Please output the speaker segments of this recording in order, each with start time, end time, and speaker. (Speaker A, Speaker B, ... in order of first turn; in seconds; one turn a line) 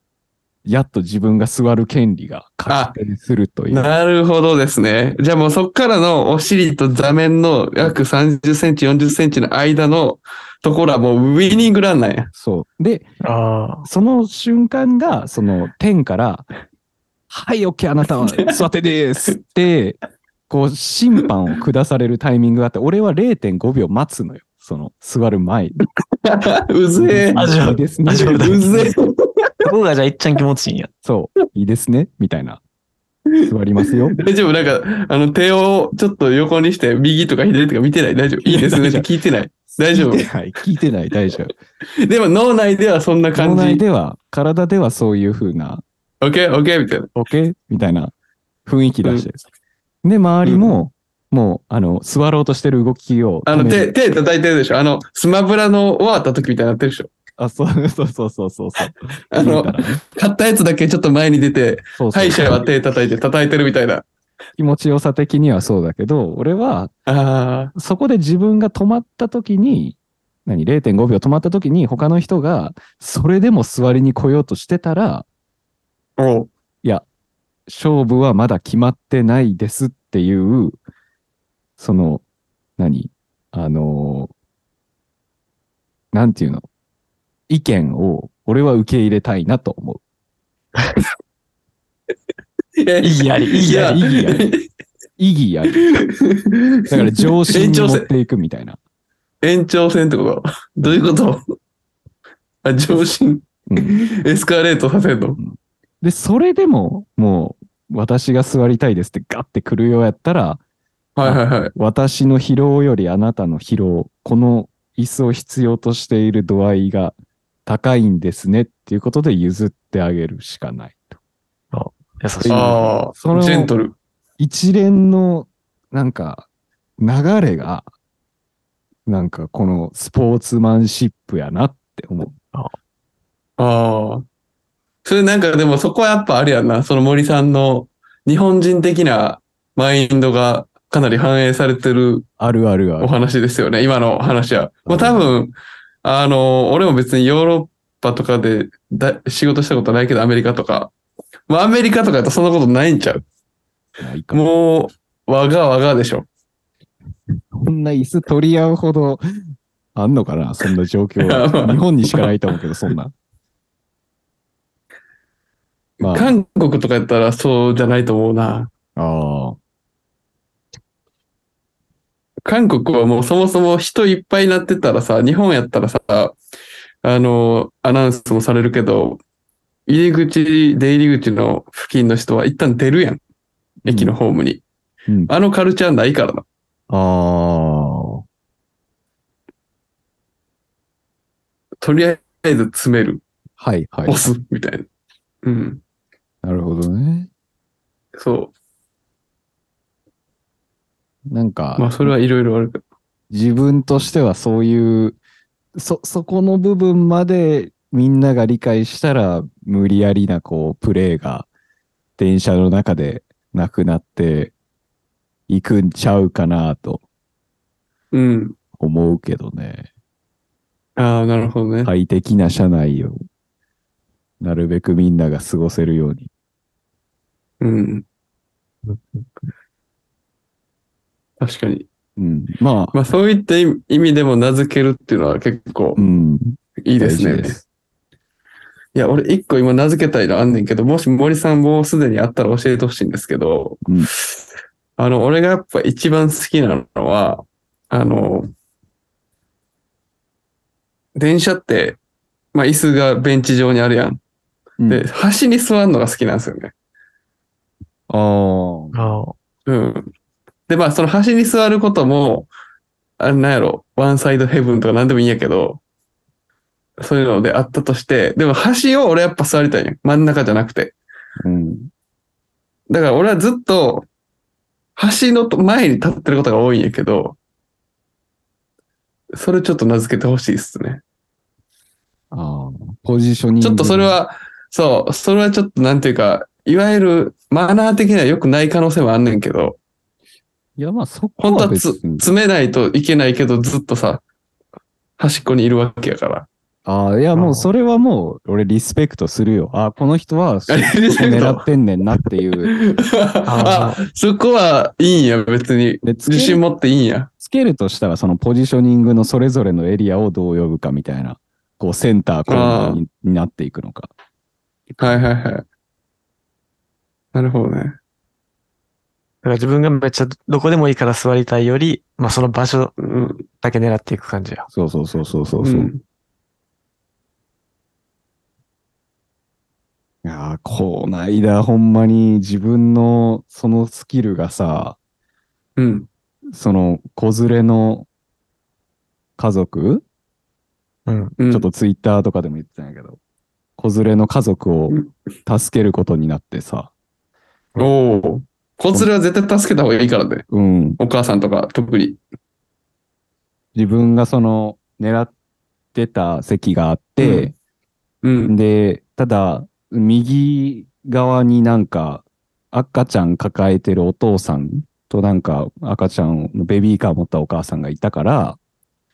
Speaker A: 0.7-3.9
Speaker B: 2.7-3.0
Speaker B: 3.7-12.3
Speaker A: 12.3-13.1
Speaker C: 13.2-13.9
Speaker A: 13.8-16.5
Speaker A: 17.3-25.8
Speaker B: 18.2-18.5
Speaker B: 26.2-27.6
Speaker A: 27.0-28.6
Speaker C: 27.4-28.9
Speaker B: 28.3-29.5
Speaker C: 29.6-30.9
Speaker A: 31.0-32.6
Speaker A: 33.4-34.2
Speaker B: 34.1-40.3
Speaker A: 38.5-39.1
Speaker A: 39.9-41.5
Speaker B: 42.0-43.8
Speaker A: 43.4-45.8
Speaker B: 46.2-47.1
Speaker A: 47.2-48.1
Speaker A: 48.7-49.4
Speaker A: 50.0-53.9
Speaker B: 50.5-50.8
Speaker B: 53.5-57.1
Speaker A: 57.4-60.0
Speaker B: 59.3-64.1
Speaker A: 62.0-62.7
Speaker A: 64.6-66.9
Speaker B: 67.1-67.7
Speaker A: 67.8-75.3
Speaker B: 76.2-76.5
Speaker A: 77.7-80.8
Speaker A: 81.8-82.2
Speaker A: 82.8-84.3
Speaker A: 86.1-86.7
Speaker A: 87.5-90.0
Speaker B: 92.8-94.7
Speaker C: 93.0-94.0
Speaker A: 93.8-94.5
Speaker A: 95.2-96.0
Speaker B: 95.8-98.1
Speaker A: 96.9-98.8
Speaker B: 99.4-101.4
Speaker B: 102.6-105.4
Speaker A: 103.7-103.9
Speaker A: 105.4-110.6
Speaker B: 111.2-111.7
Speaker A: 111.2-121.2
Speaker C: 121.7-122.9
Speaker A: 122.4-123.7
Speaker B: 122.5-124.0
Speaker A: 124.4-126.5
Speaker A: 127.0-127.9
Speaker A: 129.1-132.3
Speaker B: 133.6-134.3
Speaker B: 135.1-142.3
Speaker A: 142.4-143.1
Speaker B: 143.0-150.9
Speaker A: 144.9-145.3
Speaker B: 151.5-153.2
Speaker A: 154.0-154.4
Speaker B: 154.3-156.3
Speaker A: 157.5-159.2
Speaker A: 160.0-163.1
Speaker B: 161.2-162.3
Speaker B: 166.0-168.7
Speaker A: 166.0-166.3
Speaker A: 169.0-169.6
Speaker B: 172.4-176.4
Speaker B: 177.0-179.2
Speaker B: 179.9-183.2
Speaker A: 183.8-184.1
Speaker B: 183.8-184.6
Speaker A: 185.1-185.3
Speaker B: 185.3-186.4
Speaker A: 186.9-188.2
Speaker B: 191.8-193.2
Speaker A: 193.6-194.2
Speaker B: 194.1-194.9
Speaker B: 195.4-195.8
Speaker A: 196.4-197.3
Speaker B: 198.2-198.5
Speaker A: 201.3-202.2
Speaker B: 201.8-202.8
Speaker A: 203.3-205.2
Speaker A: 205.8-211.5
Speaker A: 212.2-214.5
Speaker A: 215.5-217.0
Speaker B: 218.1-218.6
Speaker A: 218.8-219.9
Speaker B: 221.0-221.9
Speaker A: 221.8-223.2
Speaker A: 224.4-226.3
Speaker B: 227.6-228.1
Speaker B: 231.4-231.9
Speaker A: 232.2-232.9
Speaker B: 232.9-236.0
Speaker A: 236.0-237.6
Speaker B: 236.8-237.6
Speaker B: 238.9-244.1
Speaker B: 245.0-248.5
Speaker B: 251.2-252.0
Speaker B: 252.5-254.2
Speaker B: 254.9-256.7
Speaker A: 258.1-259.0
Speaker C: 258.9-259.4
Speaker B: 259.7-260.1
Speaker B: 260.7-262.5
Speaker B: 263.2-265.8
Speaker B: 267.0-270.9
Speaker A: 271.4-271.9
Speaker B: 272.9-274.1
Speaker B: 275.0-277.4
Speaker B: 279.3-281.0
Speaker A: 282.3-284.2
Speaker B: 283.6-289.8
Speaker A: 290.8-292.3
Speaker B: 291.4-294.2
Speaker B: 295.2-296.5
Speaker A: 296.9-302.7
Speaker C: 297.4-297.7
Speaker B: 300.7-301.7
Speaker B: 302.6-307.3
Speaker C: 303.5-304.0
Speaker A: 306.0-306.6
Speaker A: 307.4-314.1
Speaker B: 312.5-313.0
Speaker A: 314.9-315.3
Speaker B: 315.0-315.6
Speaker B: 317.3-318.0
Speaker C: 319.4-322.9
Speaker B: 323.0-323.5
Speaker C: 323.6-324.7
Speaker A: 324.7-325.9
Speaker B: 325.6-326.0
Speaker A: 330.2-335.0
Speaker B: 335.8-336.1
Speaker A: 336.5-338.1
Speaker A: 339.4-340.1
Speaker C: 341.1-341.4
Speaker B: 341.4-341.7
Speaker A: 341.5-343.2
Speaker A: 343.8-346.9
Speaker B: 347.8-350.5
Speaker A: 350.5-351.0
Speaker B: 351.0-352.2
Speaker A: 353.8-355.3
Speaker A: 355.9-357.6
Speaker B: 357.2-357.5
Speaker B: 358.2-358.6
Speaker A: 358.4-368.6